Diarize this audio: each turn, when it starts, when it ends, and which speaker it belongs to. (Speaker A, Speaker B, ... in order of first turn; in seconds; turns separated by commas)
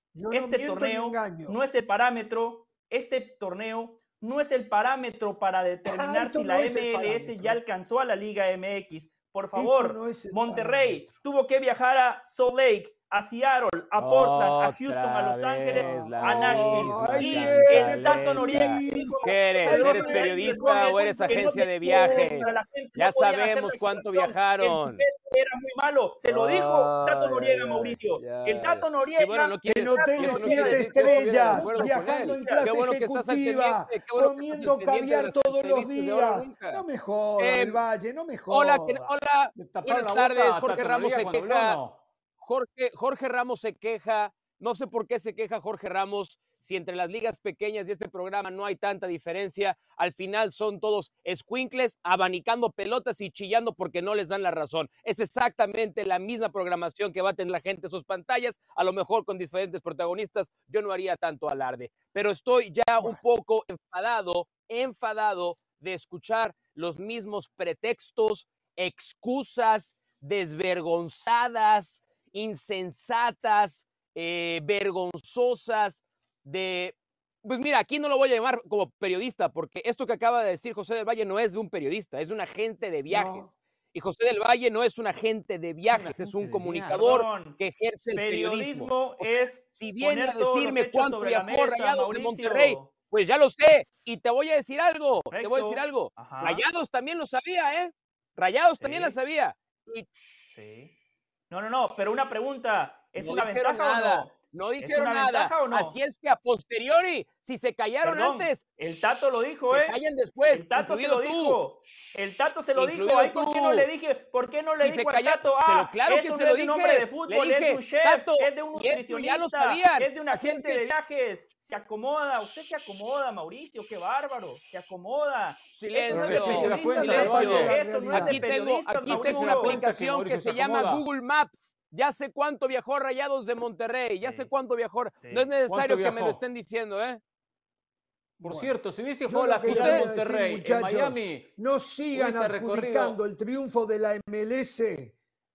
Speaker A: 0.1-1.6, Speaker B: 0.3-32.6, Speaker A: 5.9-7.6, Speaker A: 9.5-11.2, Speaker C: 14.0-25.0, Speaker A: 15.7-22.6, Speaker C: 26.2-36.8, Speaker A: 29.7-39.1, Speaker C: 37.4-37.8, Speaker C: 38.5-41.8, Speaker D: 39.5-42.0, Speaker C: 42.4-100.5, Speaker A: 83.1-83.5, Speaker D: 85.9-87.2, Speaker B: 86.9-87.6, Speaker B: 88.1-92.9, Speaker B: 95.3-96.6, Speaker B: 98.8-99.1, Speaker B: 100.5-100.9, Speaker B: 101.5-106.0, Speaker C: 103.2-108.7, Speaker B: 108.0-110.0, Speaker C: 109.7-112.2, Speaker B: 110.5-129.8, Speaker C: 112.7-113.9, Speaker C: 114.8-120.9, Speaker C: 125.7-137.2, Speaker A: 126.1-128.4, Speaker D: 126.1-127.8, Speaker D: 129.1-131.0, Speaker B: 134.2-134.5, Speaker B: 135.2-135.5, Speaker D: 135.7-136.4, Speaker A: 138.4-138.7, Speaker D: 138.4-141.5, Speaker A: 139.2-145.2, Speaker C: 139.7-140.0, Speaker D: 142.1-143.2